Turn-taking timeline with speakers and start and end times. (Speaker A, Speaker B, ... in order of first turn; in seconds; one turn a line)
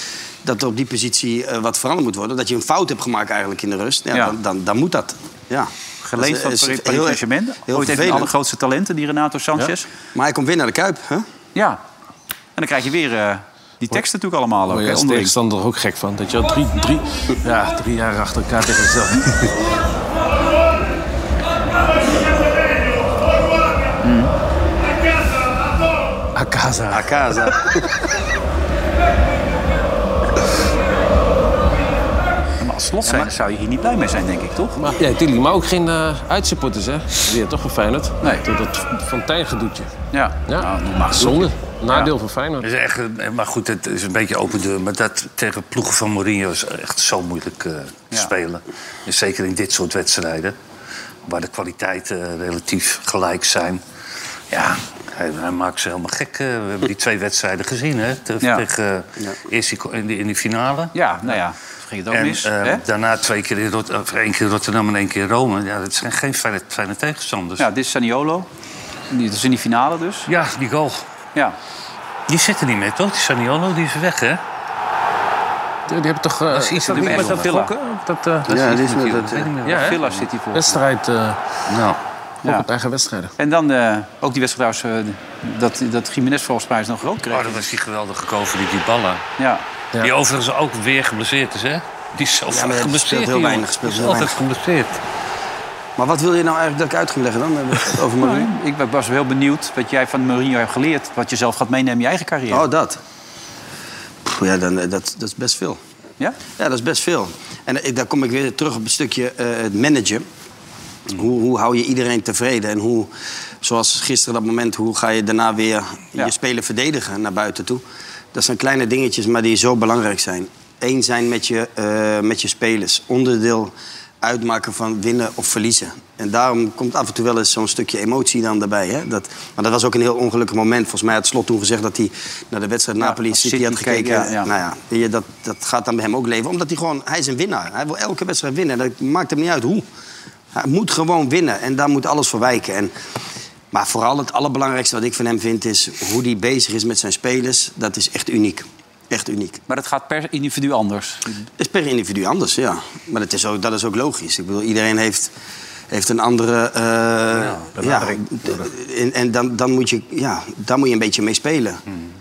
Speaker A: 0.4-8.3
Speaker B: 6.0-9.9
Speaker A: 10.1-11.2
Speaker B: 11.6-11.8
Speaker B: 12.6-15.3
Speaker C: 14.7-19.5
Speaker B: 24.0-24.3
Speaker C: 26.4-27.5
Speaker A: 26.9-27.9
Speaker B: 32.6-34.8
Speaker C: 34.8-40.0
Speaker B: 40.1-42.1
Speaker C: 40.5-42.7
Speaker D: 42.6-50.5
Speaker D: 51.3-53.8
Speaker D: 54.5-61.4
Speaker B: 60.9-62.8
Speaker D: 62.1-67.7
Speaker B: 67.6-68.5
Speaker B: 69.1-70.3
Speaker D: 70.3-71.0
Speaker D: 72.3-74.4
Speaker C: 75.9-79.0
Speaker D: 76.6-77.4
Speaker B: 76.7-77.7
Speaker A: 78.5-79.5
Speaker D: 78.5-80.0
Speaker C: 79.6-81.4
Speaker B: 79.7-80.8
Speaker D: 81.7-82.0
Speaker C: 82.4-83.3
Speaker B: 83.4-87.6
Speaker D: 87.3-89.3
Speaker B: 89.4-89.6
Speaker D: 90.0-95.0
Speaker A: 92.5-94.3
Speaker A: 96.0-98.5
Speaker B: 98.2-102.7
Speaker A: 102.5-103.0
Speaker A: 104.2-105.8
Speaker A: 106.6-110.2
Speaker A: 111.1-113.1
Speaker A: 113.6-117.8
Speaker A: 118.3-139.8
Speaker B: 133.0-134.5
Speaker A: 140.6-142.9
Speaker A: 143.7-149.6
Speaker B: 149.7-151.4
Speaker A: 151.6-155.3
Speaker A: 155.9-161.8
Speaker C: 157.5-158.7